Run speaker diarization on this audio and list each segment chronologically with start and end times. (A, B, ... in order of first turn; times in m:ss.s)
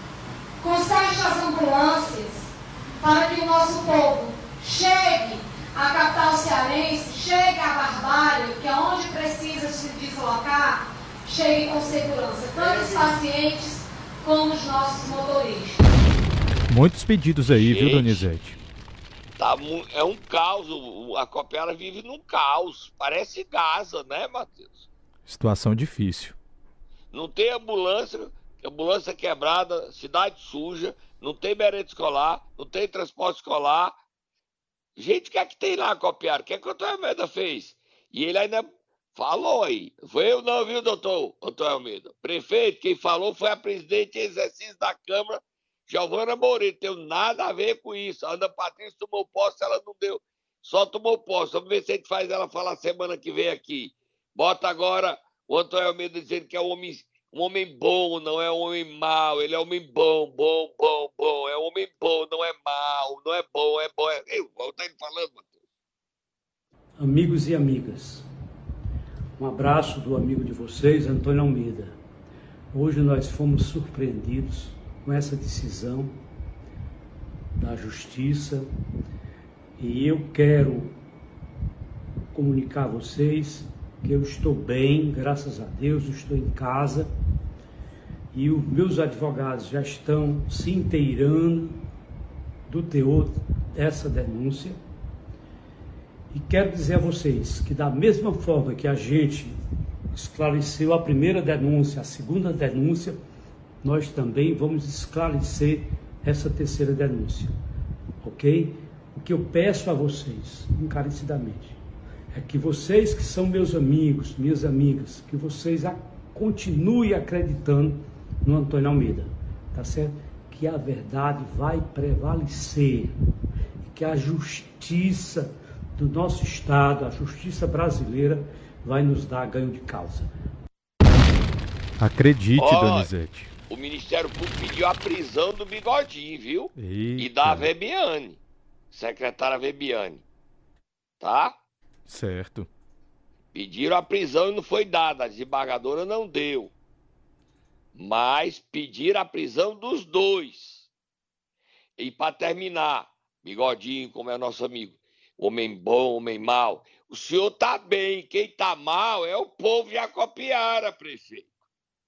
0:00.6-0:15.9 A
0:12.6-0:13.1 B
0:16.7-0:18.6 C
0:17.6-0:18.3 B
0:19.4-0:24.9 B
0:25.3-0:26.4 C
0:27.1-0:34.0 B
0:35.0-1:05.5 B
1:07.0-1:08.3 D
1:09.4-1:12.0 D
1:12.7-1:16.2 D
1:17.6-1:18.7 D
1:19.8-1:21.0 D
1:22.3-1:27.1 D
1:28.3-1:31.8 D
1:32.7-1:34.8 D
1:36.3-1:39.6 D
1:40.1-1:43.2 D
1:43.8-1:47.6 D
1:48.2-1:51.8 D
1:52.3-2:03.2 D
2:03.9-2:10.3 D
2:12.0-2:13.5 C
2:12.6-2:13.1 B
2:13.7-2:18.4 B
2:16.8-2:17.7 C
2:18.9-2:20.2 B
2:21.2-2:21.6 B
2:22.1-2:22.7 C
2:23.5-2:26.7 B
2:28.0-2:30.9 B
2:32.0-2:41.5 B